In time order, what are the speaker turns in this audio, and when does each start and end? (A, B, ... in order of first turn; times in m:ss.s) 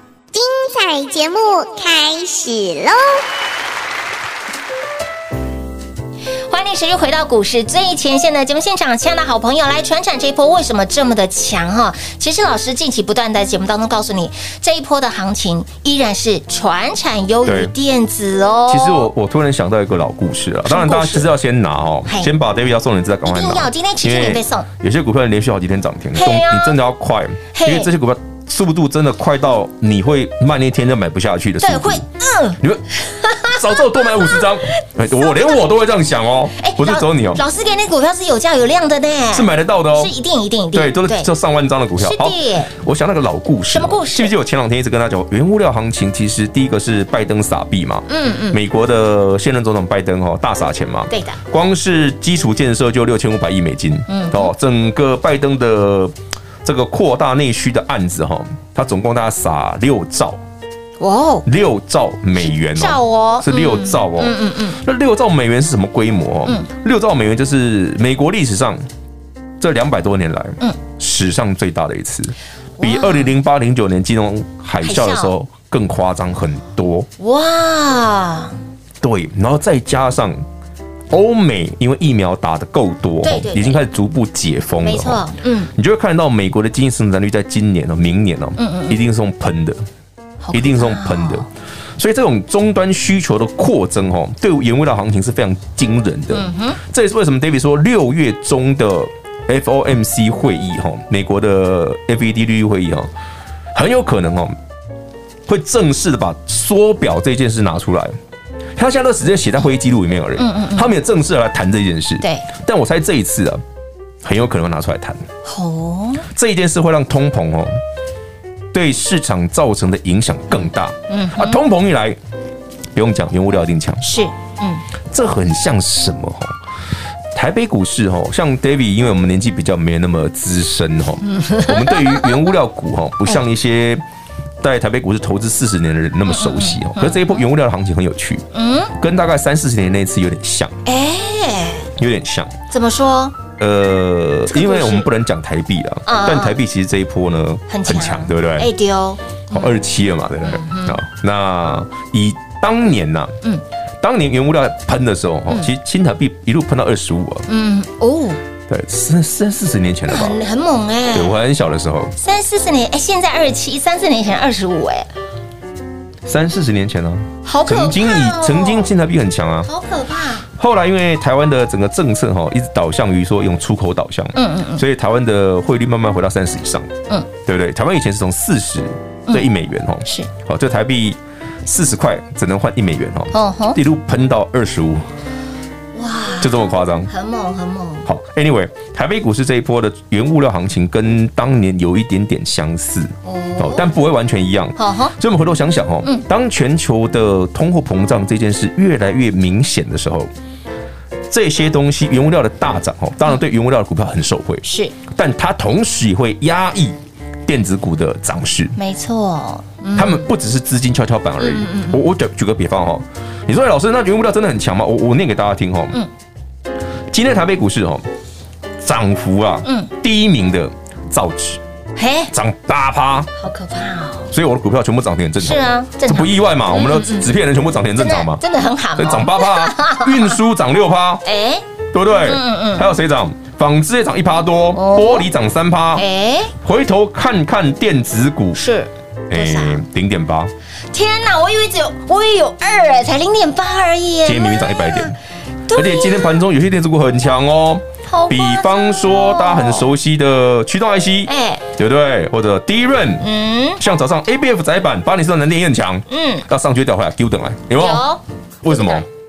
0:00.3-0:03.2 A
0:06.5-0:19.1 B
0:17.4-0:17.7 C
0:18.7-0:32.0 C
0:20.6-0:21.3 B
0:22.0-0:22.3 B
0:23.2-0:24.7 B
0:26.2-0:26.8 B
0:27.5-0:27.9 B
0:31.6-0:34.5 B
0:33.4-0:37.4 C
0:35.1-0:35.6 B
0:36.6-0:41.3 B
0:39.3-0:40.1 C
0:40.7-1:00.4 C
0:42.0-0:42.7 B
0:43.7-0:44.3 B
0:48.1-0:48.6 B
0:51.1-0:51.4 B
0:54.1-0:54.5 B
1:01.0-1:01.4 B
1:01.4-1:08.8 C
1:02.6-1:04.8 B
1:09.6-1:17.1 C
1:12.8-1:13.3 B
1:14.8-1:15.3 B
1:17.2-1:18.6 B
1:19.0-1:20.4 C
1:21.1-1:25.2 C
1:23.2-1:23.8 B
1:24.8-1:25.7 B
1:25.7-1:29.8 C
1:28.6-1:29.0 B
1:30.4-1:31.4 B
1:30.5-1:31.4 C
1:32.0-1:43.1 C
1:36.3-1:36.8 B
1:43.7-1:44.6 C
1:45.5-1:48.2 C
1:48.8-1:53.6 C
1:50.4-1:50.9 B
1:54.2-1:55.2 C
1:55.4-1:56.2 B
1:56.3-1:57.7 C
1:58.7-2:02.2 C
2:01.1-2:01.6 B
2:02.9-2:04.0 C
2:04.0-2:04.8 B
2:05.1-2:06.5 C
2:07.3-2:14.0 C
2:11.2-2:12.4 B
2:14.6-2:18.4 C
2:16.3-2:17.4 B
2:18.5-2:18.9 B
2:19.0-2:20.7 C
2:20.8-2:21.9 B
2:22.0-2:22.5 C
2:22.7-2:23.4 B
2:23.6-2:28.7 C
2:24.5-2:25.1 B
2:26.0-2:26.6 B
2:27.7-2:29.7 B
2:29.5-2:33.3 C
2:30.4-2:31.0 B
2:34.0-2:37.4 C
2:37.5-2:38.4 B
2:38.7-2:40.4 C
2:40.1-2:41.4 B
2:41.1-2:42.1 C
2:42.2-2:45.1 B
2:46.2-2:49.7 C
2:47.4-2:48.9 B
2:49.6-2:50.4 B
2:50.6-3:05.1 C
2:54.3-2:54.8 B
3:03.3-3:03.8 B
3:05.9-3:08.1 B
3:06.4-3:07.1 C
3:08.0-3:20.3 C
3:13.2-3:13.8 B
3:14.8-3:15.2 B
3:21.3-3:28.8 C
3:24.6-3:24.9 B
3:28.8-3:30.3 B
3:30.0-3:36.0 C
3:31.4-3:32.0 B
3:37.1-3:38.0 C
3:38.8-3:41.6 C
3:39.6-3:39.9 B
3:42.0-3:42.3 B
3:42.3-3:43.3 C
3:43.4-3:44.3 B
3:44.3-3:48.4 C
3:45.4-3:47.3 B
3:48.0-3:50.4 B
3:49.0-3:51.2 C
3:51.2-3:51.6 B
3:51.9-3:56.0 C
3:52.2-3:52.9 B
3:54.7-3:55.3 B
3:56.0-3:56.5 B
3:56.6-3:58.6 C
3:58.5-3:59.8 B
3:59.3-4:00.5 C
4:00.9-4:05.1 B
4:04.2-4:05.1 C
4:05.7-4:06.4 B
4:05.7-4:13.2 C
4:08.1-4:09.9 B
4:11.3-4:11.6 B
4:13.2-4:13.8 B
4:13.8-4:18.0 C
4:16.1-4:16.4 B
4:17.8-4:19.0 B
4:18.6-4:19.0 C